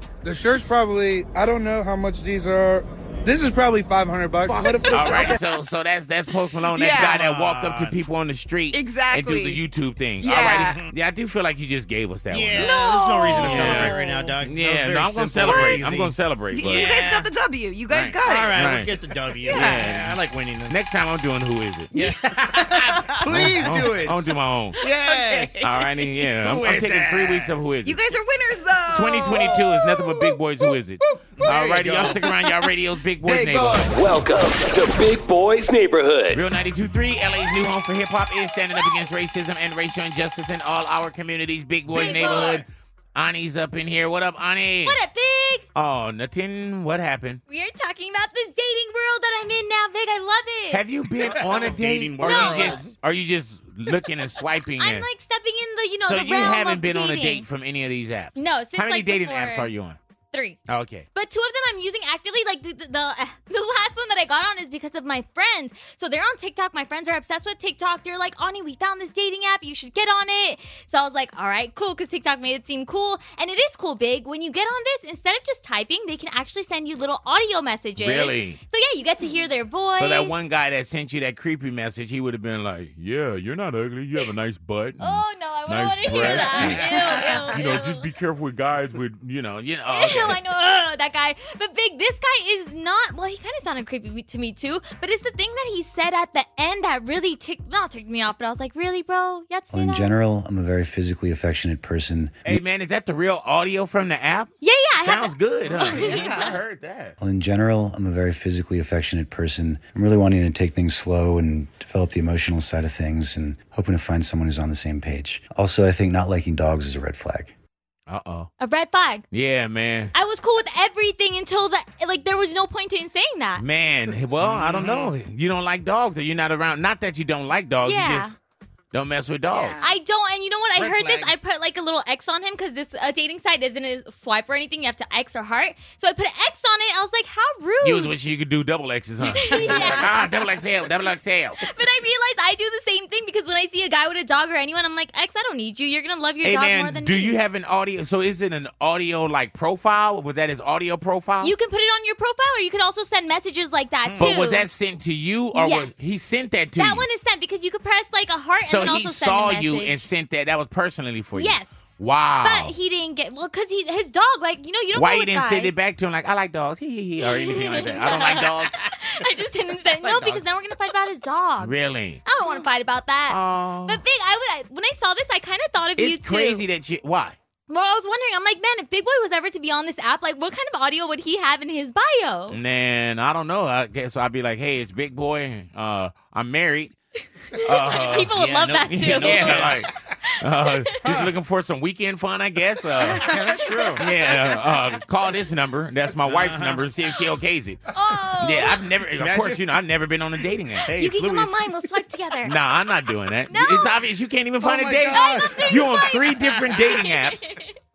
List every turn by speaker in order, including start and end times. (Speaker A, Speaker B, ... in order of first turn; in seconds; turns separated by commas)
Speaker A: 0.2-5.4, Speaker B: 4.9-12.7, Speaker C: 6.7-7.2, Speaker D: 6.9-8.0, Speaker C: 8.7-9.6, Speaker C: 10.2-10.8, Speaker D: 10.4-10.9, Speaker D: 12.3-17.3, Speaker C: 12.6-14.3, Speaker B: 13.3-16.9, Speaker C: 15.4-15.8, Speaker C: 16.5-18.7, Speaker B: 17.9-18.9, Speaker D: 18.2-20.8, Speaker C: 19.4-19.9, Speaker B: 19.5-21.9, Speaker D: 21.9-24.2, Speaker C: 21.9-23.5, Speaker B: 23.3-24.8, Speaker D: 24.8-25.7, Speaker C: 24.8-25.9, Speaker B: 25.6-28.0, Speaker D: 26.4-27.6, Speaker C: 27.8-30.4, Speaker B: 28.9-33.9, Speaker D: 31.4-32.2, Speaker C: 31.4-32.5, Speaker D: 33.2-33.9, Speaker E: 33.9-36.4, Speaker B: 36.3-45.0, Speaker F: 41.9-42.6, Speaker D: 42.0-42.6, Speaker F: 44.8-45.6, Speaker B: 45.7-47.4, Speaker F: 47.5-50.8, Speaker B: 50.7-55.0, Speaker D: 51.2-52.9, Speaker F: 52.2-52.8, Speaker F: 54.8-57.5, Speaker B: 56.0-60.0, Speaker F: 58.4-59.7, Speaker F: 60.3-60.6, Speaker B: 60.7-61.1, Speaker F: 61.1-80.3, Speaker B: 78.0-78.6, Speaker B: 80.0-86.9, Speaker F: 85.0-88.0, Speaker D: 86.3-87.4, Speaker B: 87.5-90.4, Speaker F: 89.9-100.1, Speaker G: 99.7-102.6, Speaker B: 102.4-107.2, Speaker F: 104.6-106.4, Speaker C: 105.8-106.6, Speaker G: 107.2-117.5, Speaker B: 118.1-118.5, Speaker F: 118.6-119.2, Speaker B: 119.3-120.1, Speaker F: 120.1-123.6, Speaker B: 123.6-128.3, Speaker D: 124.4-125.1, Speaker F: 127.8-128.3, Speaker B: 128.9-129.8, Speaker C: 129.5-129.9, Speaker F: 129.8-138.1, Speaker D: 130.8-131.3, Speaker B: 130.8-131.1, Speaker B: 137.8-141.6, Speaker F: 139.4-140.2, Speaker F: 141.6-147.4, Speaker B: 146.4-151.5, Speaker F: 151.4-154.7, Speaker D: 154.0-154.4, Speaker B: 154.2-157.0, Speaker F: 155.5-155.9, Speaker F: 156.8-160.1, Speaker B: 158.6-162.7, Speaker F: 161.3-161.8, Speaker F: 162.4-165.7, Speaker B: 164.9-168.8, Speaker F: 167.2-176.6, Speaker B: 170.0-170.5, Speaker B: 171.6-172.2, Speaker B: 173.3-174.0, Speaker B: 176.0-177.4, Speaker F: 177.7-182.6, Speaker B: 182.5-186.9, Speaker F: 187.5-189.8, Speaker B: 187.6-188.3, Speaker D: 188.3-189.8, Speaker B: 188.9-189.9, Speaker B: 190.4-193.3, Speaker D: 191.0-191.3, Speaker D: 193.0-194.0, Speaker C: 193.3-193.8, Speaker B: 193.9-197.8, Speaker D: 196.2-196.8, Speaker F: 197.9-198.9, Speaker B: 198.4-200.9, Speaker D: 199.1-199.6, Speaker F: 200.8-202.5, Speaker D: 200.9-201.8, Speaker B: 202.4-207.5, Speaker F: 203.5-204.0, Speaker D: 204.6-206.1, Speaker F: 205.1-207.7